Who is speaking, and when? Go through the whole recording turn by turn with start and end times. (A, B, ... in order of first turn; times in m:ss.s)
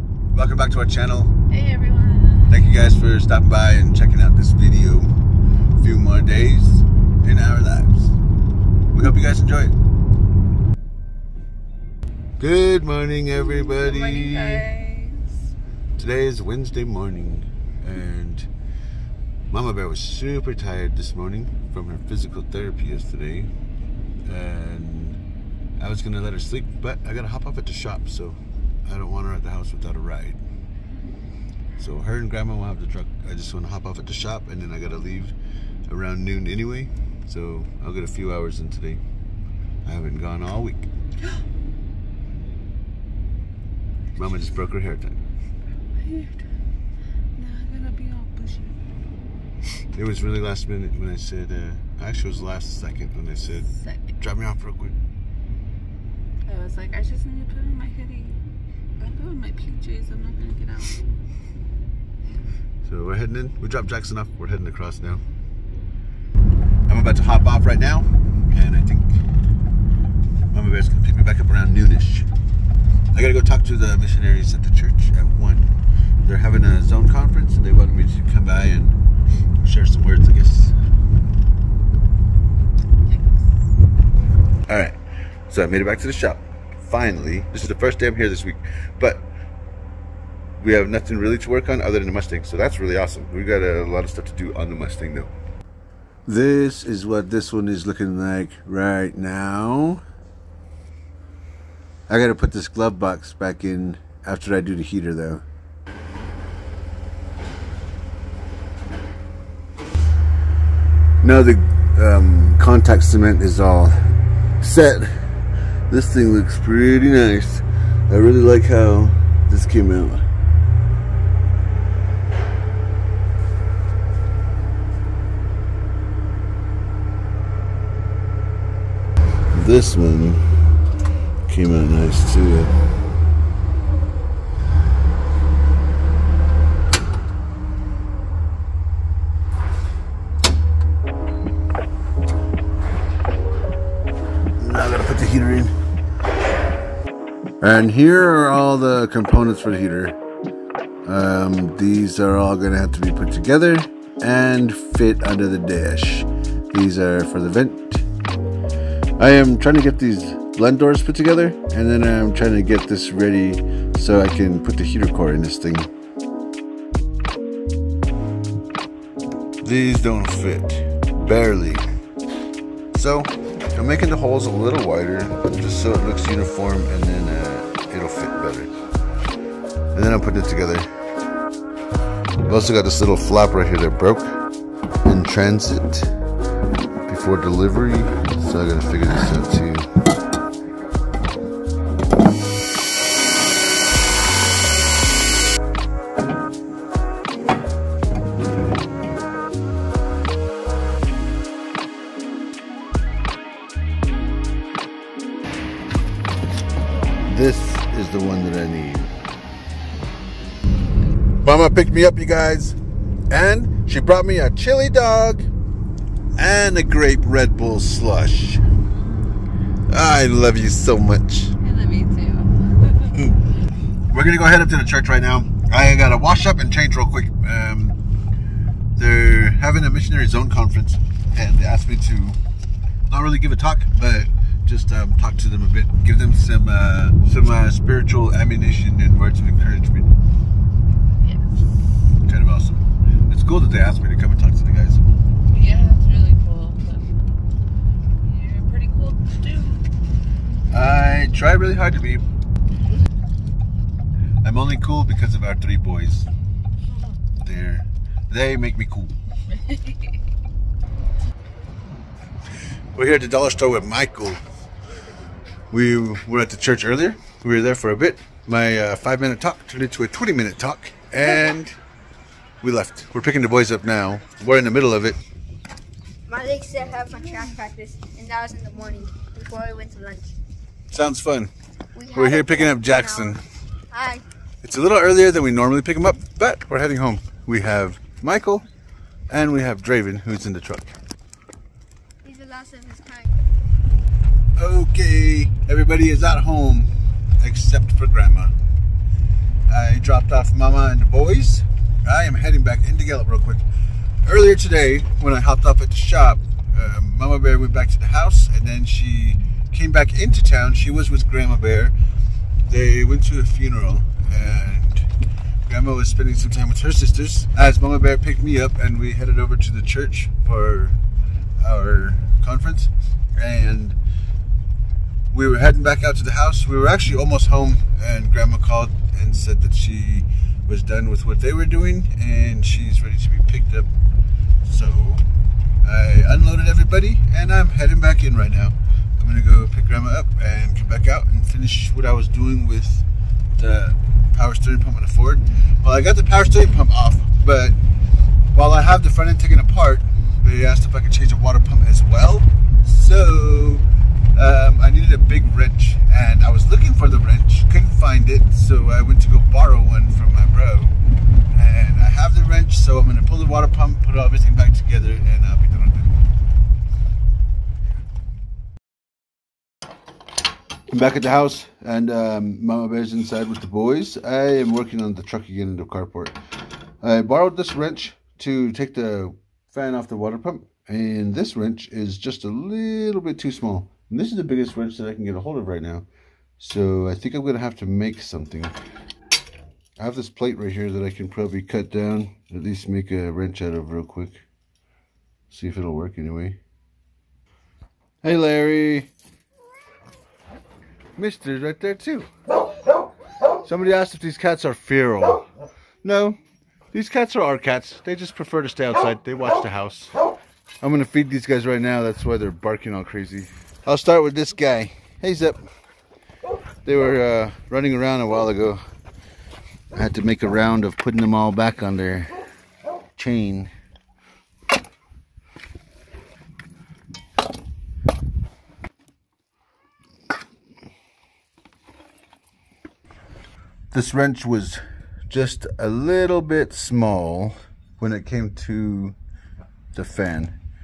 0:00.3-0:01.3 A
0:01.5-0:02.8 B
0:02.5-0:05.1 A
0:05.8-0:08.2 A
0:08.9-0:09.8 A
0:12.4-0:14.7 A
0:13.3-0:15.3 B
0:16.0-0:18.5 A
0:19.5-0:23.5 A
0:24.3-0:25.2 A
0:25.8-0:30.4 A
0:31.8-0:35.4 A
0:35.9-0:39.0 A
0:39.8-0:40.9 A
0:44.2-0:45.2 A
0:45.9-0:46.4 B
0:47.4-0:48.8 B
0:49.9-0:53.7 A
0:53.7-0:54.2 B
0:54.2-0:55.0 A
0:56.5-0:58.4 B
0:59.0-1:01.1 B
1:02.8-1:05.2 A
1:06.9-1:09.2 A
1:10.5-1:12.3 A
1:13.1-1:19.0 A
1:19.6-1:20.8 A
1:23.1-1:23.4 B
1:24.7-1:25.0 A
1:25.5-1:29.3 A
1:30.6-1:35.3 A
1:36.3-1:40.0 A
1:42.1-1:45.4 A
1:51.2-1:54.0 A
1:54.6-1:55.2 A
1:55.9-2:00.3 A
2:09.5-2:10.7 A
2:11.5-2:12.7 A
2:24.6-2:25.7 A
2:27.6-2:30.2 A
2:31.0-2:38.0 A
2:39.2-2:45.9 A
2:49.6-2:51.8 A
2:52.9-2:58.7 A
2:59.9-3:00.9 A
3:02.5-3:04.4 A
3:05.0-3:06.1 A
3:07.1-3:09.9 A
3:27.2-3:29.1 A
3:31.4-3:32.8 A
3:33.3-3:35.5 A
3:36.4-3:38.6 A
3:39.9-3:41.6 A
3:41.6-3:43.3 B
3:44.1-3:48.0 A
3:49.0-3:52.4 A
3:53.1-4:00.1 A
4:01.2-4:01.7 B
4:02.2-4:05.0 A
4:05.5-4:07.2 B
4:08.2-4:09.9 B
4:10.7-4:12.2 A
4:14.4-4:16.3 A
4:17.4-4:19.1 A
4:19.5-4:20.2 B
4:23.0-4:24.4 A
4:25.7-4:31.8 A
4:32.6-4:35.2 A
4:36.3-4:40.3 C
4:40.9-4:41.5 A
4:42.0-4:43.4 C
4:42.1-4:43.4 A
4:43.9-4:44.2 C
4:44.6-4:48.6 A
4:49.3-4:51.0 A
4:52.2-4:53.4 C
4:54.6-4:58.5 A
4:59.7-5:03.6 A
5:04.2-5:12.0 A
5:12.6-5:15.1 A
5:15.7-5:21.0 A
5:21.6-5:24.0 A
5:25.3-5:33.9 A
5:34.6-5:35.2 A
5:35.8-5:47.8 A
5:48.5-6:01.0 A
6:01.5-6:06.1 A
6:10.9-6:16.4 A
6:17.0-6:26.1 A
6:26.6-6:28.7 A
6:30.0-6:34.4 A
6:35.5-6:36.6 A
6:38.2-6:39.1 A
6:41.2-6:42.3 A
6:43.6-6:45.4 A
6:46.0-6:46.4 A
6:46.9-6:50.1 A
6:50.8-6:55.6 A
6:56.8-6:58.8 A
6:59.9-7:02.3 A
7:03.2-7:03.7 A
7:13.9-7:19.2 A
7:19.9-7:20.6 A